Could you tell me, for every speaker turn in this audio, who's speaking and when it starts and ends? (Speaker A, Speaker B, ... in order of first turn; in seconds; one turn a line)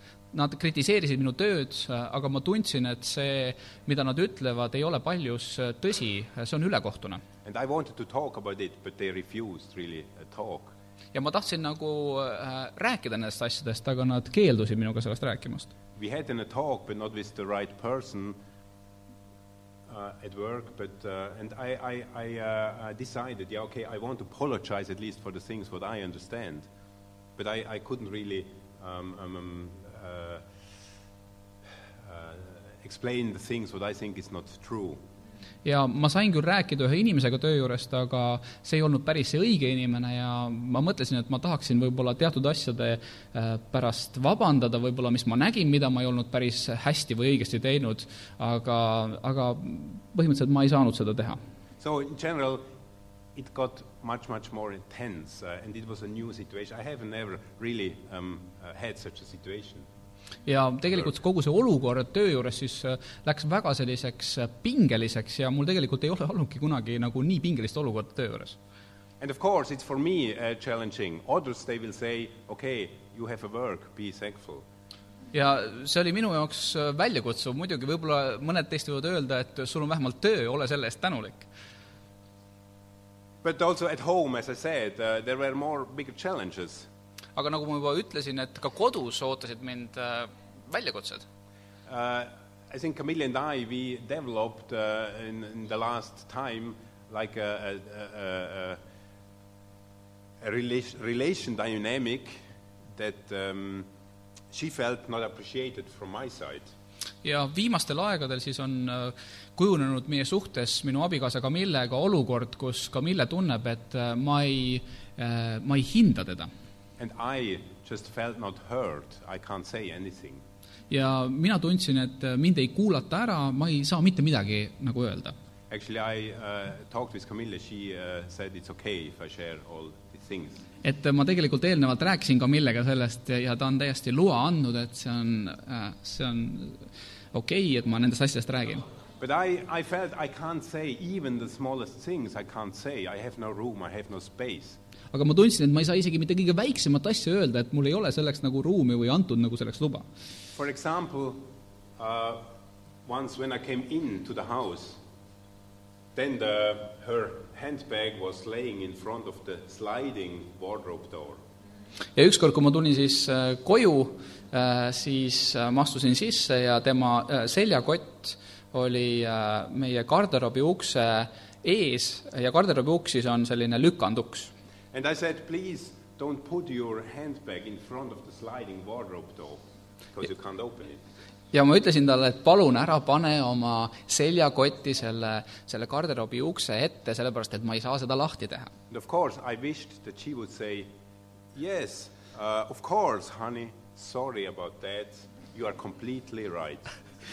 Speaker A: 0.3-7.2
Speaker B: 7.5-10.7
Speaker A: 11.1-15.7
Speaker B: 15.9-18.4
Speaker B: 19.9-26.7
Speaker B: 27.4-30.5
Speaker B: 32.0-35.0
Speaker A: 35.6-51.4
Speaker B: 51.8-52.6
Speaker B: 53.4-59.9
Speaker A: 60.5-68.6
Speaker B: 69.2-74.7
Speaker A: 75.3-81.5
Speaker B: 83.4-86.9
Speaker A: 87.4-91.2
Speaker B: 91.9-98.8
Speaker B: 100.4-102.4
Speaker B: 103.0-103.9
Speaker B: 104.5-106.7
Speaker A: 107.2-116.5
Speaker B: 117.0-120.4
Speaker A: 120.9-125.3
Speaker B: 125.7-130.7
Speaker A: 130.8-138.8
Speaker B: 139.2-144.8
Speaker A: 145.1-150.1
Speaker B: 150.5-152.5
Speaker B: 153.1-155.0
Speaker B: 156.2-161.4
Speaker A: 162.2-174.5
Speaker B: 174.9-179.6
Speaker B: 180.1-181.0
Speaker A: 181.5-188.7
Speaker B: 188.9-190.9
Speaker B: 191.5-196.9